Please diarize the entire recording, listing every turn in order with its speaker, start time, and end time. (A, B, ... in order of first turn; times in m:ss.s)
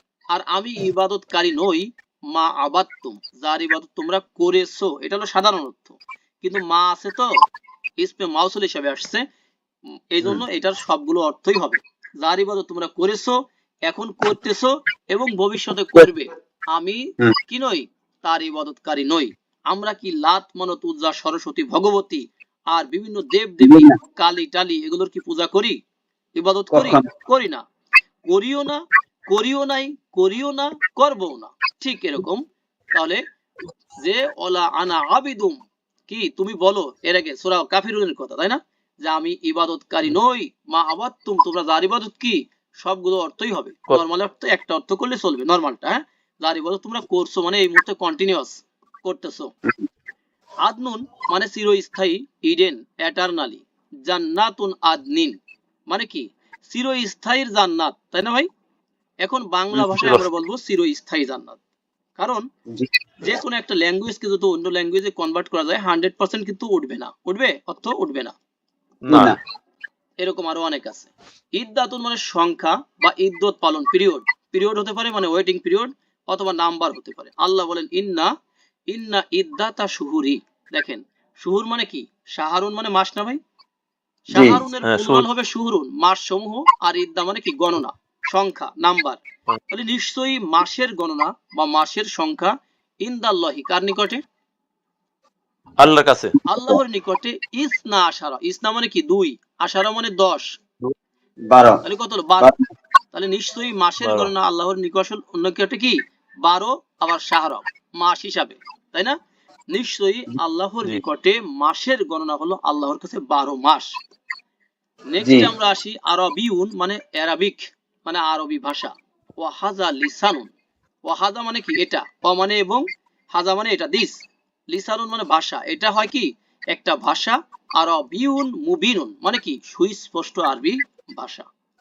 0:00.3-0:07.3 A
0:08.0-0:09.2 A
0:10.1-0:25.8 A
0:23.6-0:24.0 B
0:26.4-0:27.6 A
0:26.7-0:27.0 B
0:28.3-0:32.4 A
0:32.9-0:33.2 A
0:34.0-0:49.5 A
0:50.6-0:55.4 A
0:55.9-0:58.5 A
0:59.2-1:01.6 A
0:59.7-1:00.2 C
1:02.2-1:02.4 A
1:03.2-1:08.4 A
1:09.0-1:09.4 C
1:09.1-1:09.4 B
1:10.2-1:18.3 A
1:18.9-1:23.4 A
1:24.3-1:34.2 A
1:24.3-1:24.6 B
1:24.8-1:25.2 C
1:35.8-1:36.3 C
1:36.4-1:40.6 A
1:36.5-1:36.8 B
1:41.5-1:41.8 B
1:41.8-1:42.5 A
1:43.1-1:49.1 A
1:44.0-1:44.3 C
1:49.7-1:53.9 A
1:55.1-2:00.5 A
1:55.2-1:55.5 B
2:01.0-2:11.5 A